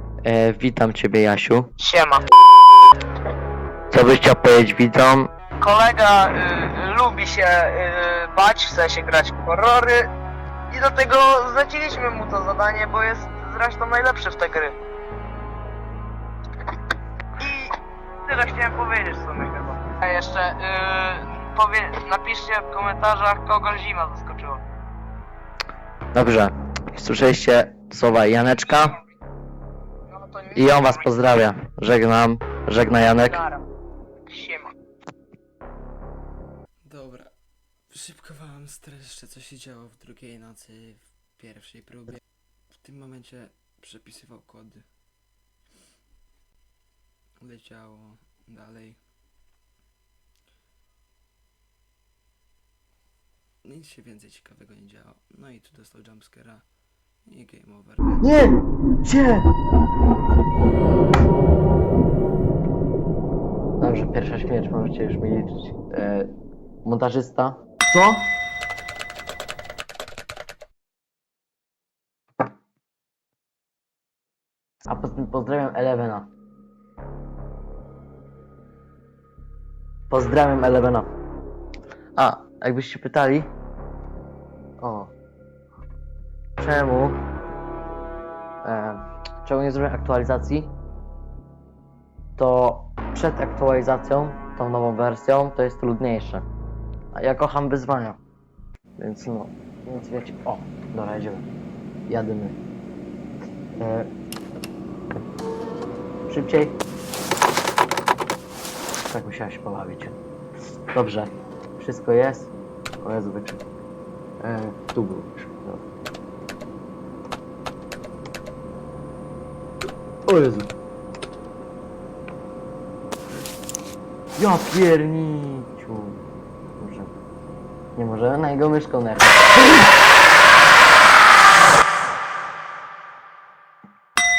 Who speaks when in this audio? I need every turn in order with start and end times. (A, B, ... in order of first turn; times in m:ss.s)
0:00.2-0:01.7 A
0:01.8-0:02.2 B
0:03.9-0:05.3 A
0:05.6-0:10.1 B
0:10.7-0:14.8 B
0:17.4-0:17.7 B
0:18.2-0:24.6 B
0:26.1-0:29.0 A
0:30.1-0:31.0 B
0:30.5-0:33.4 A
0:33.2-0:33.6 B
0:34.3-0:34.7 B
0:36.8-0:37.3 C
0:37.9-0:42.2 C
0:42.8-0:44.9 C
0:47.4-0:49.0 C
0:53.6-0:56.6 C
0:57.2-0:58.2 C
0:58.2-0:59.5 A
1:03.8-1:06.3 A
1:06.8-1:08.3 A
1:14.8-1:16.3 A
1:20.1-1:21.1 A
1:22.2-1:23.5 A
1:24.8-1:25.1 A
1:26.6-1:27.2 A
1:28.6-1:30.7 A
1:32.4-1:36.5 A
1:37.1-1:38.2 A
1:39.0-1:41.5 A
1:42.1-1:42.6 A
1:43.8-1:44.1 A
1:46.3-1:46.8 A
1:49.1-1:50.1 A
1:50.9-1:53.6 A
1:54.4-1:55.8 A
2:00.3-2:00.8 A
2:04.4-2:06.2 A
2:06.8-2:07.1 A
2:08.0-2:09.9 A